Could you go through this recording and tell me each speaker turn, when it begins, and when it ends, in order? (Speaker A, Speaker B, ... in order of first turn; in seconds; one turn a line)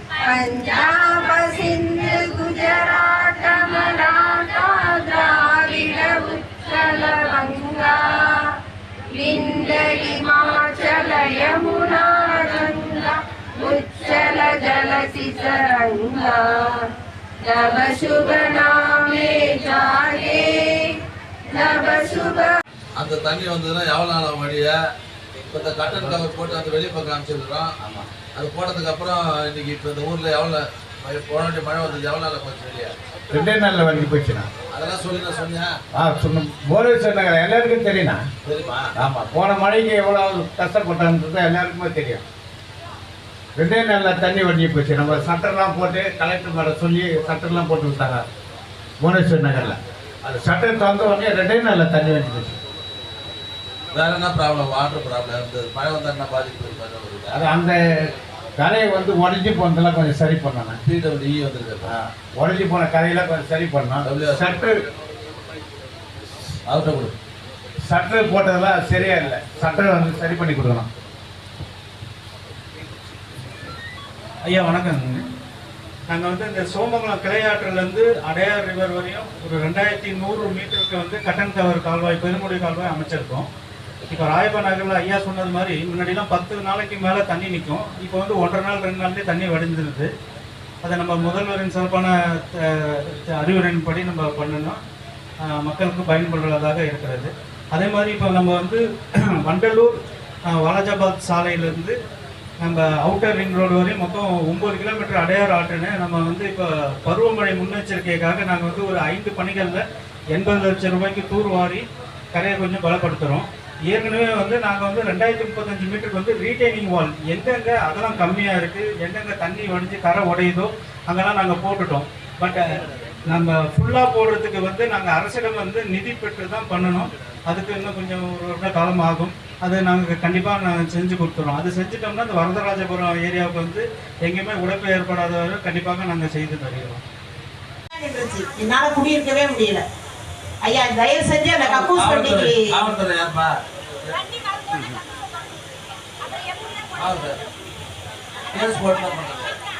Speaker A: 0.2-8.6
Speaker A: 9.1-16.9
Speaker A: 17.4-21.0
Speaker A: 21.5-22.5
Speaker B: 23.0-24.8
Speaker B: 25.5-27.7
Speaker C: 27.8-28.1
Speaker B: 28.3-33.0
Speaker C: 33.3-34.5
Speaker B: 34.7-35.7
Speaker C: 36.0-38.2
Speaker B: 38.5-38.9
Speaker C: 39.0-42.2
Speaker C: 43.6-48.2
Speaker C: 49.0-52.6
Speaker B: 53.9-57.4
Speaker C: 57.3-57.8
Speaker C: 58.6-60.8
Speaker B: 60.9-61.9
Speaker C: 61.9-64.8
Speaker B: 64.0-64.5
Speaker B: 66.7-67.1
Speaker C: 67.9-70.9
Speaker D: 74.5-75.2
Speaker D: 76.1-83.5
Speaker D: 84.0-90.1
Speaker D: 90.8-94.8
Speaker D: 95.5-98.8
Speaker D: 99.4-100.0
Speaker D: 100.5-102.0
Speaker D: 102.6-122.7
Speaker D: 123.3-137.0
Speaker E: 137.9-139.8
Speaker E: 140.6-142.8
Speaker B: 141.6-144.2
Speaker B: 147.0-147.4
Speaker B: 148.6-149.6